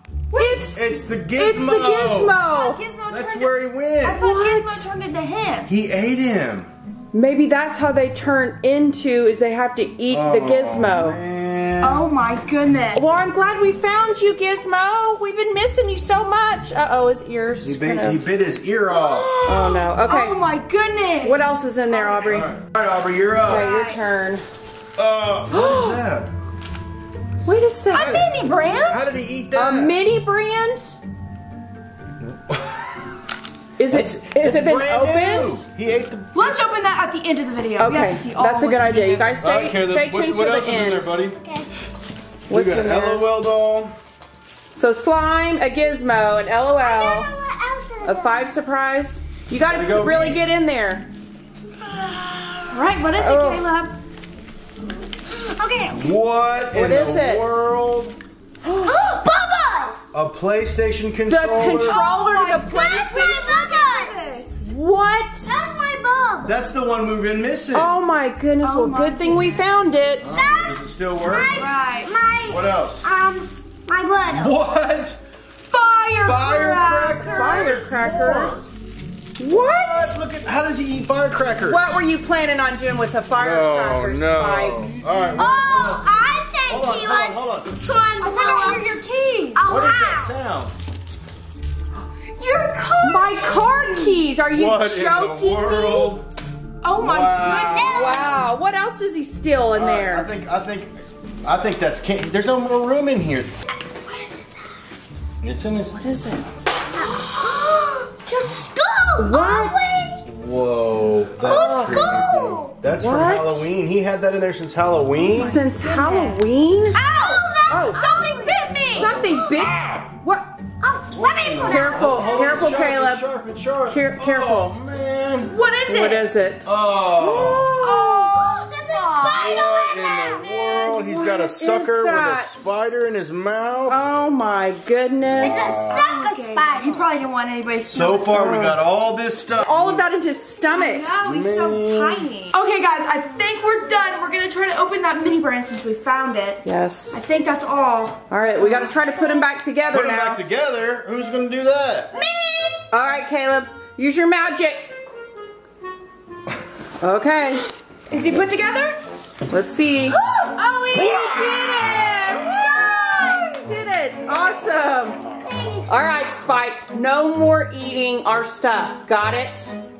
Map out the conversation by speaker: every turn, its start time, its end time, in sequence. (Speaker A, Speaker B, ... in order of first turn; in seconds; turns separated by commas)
Speaker A: 0.3-0.7, Speaker B: 0.3-0.8, Speaker C: 0.7-2.4, Speaker B: 1.3-2.8, Speaker A: 2.4-5.7, Speaker C: 3.1-4.2, Speaker B: 4.1-4.8, Speaker C: 5.7-6.7, Speaker B: 7.1-11.2, Speaker C: 10.1-12.0, Speaker A: 11.8-13.1, Speaker B: 12.9-18.2, Speaker C: 17.6-19.3, Speaker A: 18.9-22.2, Speaker B: 19.4-20.4, Speaker B: 21.2-22.5, Speaker C: 22.2-23.7, Speaker B: 23.4-24.4, Speaker A: 23.5-24.0, Speaker C: 25.0-26.3, Speaker B: 25.5-26.0, Speaker B: 27.4-28.1, Speaker A: 27.9-29.1, Speaker C: 27.9-30.0, Speaker B: 29.5-30.9, Speaker C: 32.2-33.1, Speaker B: 33.8-35.6, Speaker C: 33.9-36.6, Speaker A: 36.3-39.4, Speaker B: 37.8-41.2, Speaker C: 39.4-41.4, Speaker D: 41.3-41.7, Speaker B: 42.5-43.2, Speaker C: 42.5-43.9, Speaker B: 44.7-47.3, Speaker D: 46.8-48.5, Speaker B: 48.0-51.1, Speaker C: 49.7-50.4, Speaker A: 52.6-53.9, Speaker B: 53.1-53.6, Speaker A: 55.4-55.9, Speaker C: 55.9-58.2, Speaker B: 56.7-57.6, Speaker B: 58.6-59.0, Speaker D: 58.8-60.0, Speaker C: 60.1-62.0, Speaker B: 61.2-62.9, Speaker A: 61.8-64.7, Speaker D: 62.7-64.1, Speaker B: 64.6-65.5, Speaker D: 65.5-66.5, Speaker C: 66.4-67.9, Speaker B: 67.7-70.4, Speaker A: 68.6-69.6, Speaker C: 70.2-71.6, Speaker D: 70.3-74.6, Speaker A: 71.5-72.1, Speaker C: 72.5-73.1, Speaker C: 74.3-75.2, Speaker A: 75.7-77.8, Speaker C: 76.2-78.7, Speaker B: 77.3-78.7, Speaker B: 79.4-80.2, Speaker C: 79.5-82.0, Speaker B: 81.6-85.0, Speaker C: 83.4-87.7, Speaker D: 85.3-88.8, Speaker A: 88.2-89.7, Speaker D: 89.5-90.3, Speaker C: 89.6-90.7, Speaker A: 92.3-94.2, Speaker B: 93.0-96.2, Speaker C: 94.5-96.2, Speaker A: 96.8-98.0, Speaker C: 97.0-98.2, Speaker D: 97.5-98.4, Speaker B: 97.9-100.3, Speaker C: 99.7-103.5, Speaker D: 103.8-104.6, Speaker C: 105.4-106.0, Speaker B: 106.0-106.4, Speaker D: 106.9-110.2, Speaker B: 109.2-110.1, Speaker C: 110.2-115.6, Speaker D: 111.4-112.8, Speaker B: 112.9-113.7, Speaker A: 115.2-119.3, Speaker B: 115.3-117.0, Speaker D: 117.0-119.1, Speaker B: 117.7-118.0, Speaker B: 118.9-120.5, Speaker C: 119.5-119.9, Speaker D: 120.8-122.3, Speaker C: 121.1-125.5, Speaker B: 121.6-123.3, Speaker B: 123.9-124.7, Speaker A: 125.4-126.3, Speaker B: 125.9-128.3, Speaker C: 126.7-127.8, Speaker A: 127.8-129.6, Speaker D: 128.3-131.1, Speaker C: 129.3-134.0, Speaker B: 130.9-132.7, Speaker B: 133.9-135.9, Speaker C: 135.4-136.0, Speaker D: 135.4-137.1, Speaker A: 135.9-138.5, Speaker C: 137.9-140.0, Speaker B: 138.3-138.8, Speaker B: 139.6-141.1, Speaker A: 140.7-148.9, Speaker C: 141.2-142.3, Speaker B: 146.6-147.2, Speaker B: 148.3-150.5, Speaker C: 149.9-152.1, Speaker D: 152.2-152.5, Speaker B: 152.9-154.9, Speaker B: 157.0-157.6, Speaker A: 158.1-159.0, Speaker B: 159.5-160.2, Speaker A: 160.1-163.7, Speaker B: 160.9-162.7, Speaker B: 163.3-165.2, Speaker D: 165.3-166.0, Speaker B: 165.9-169.7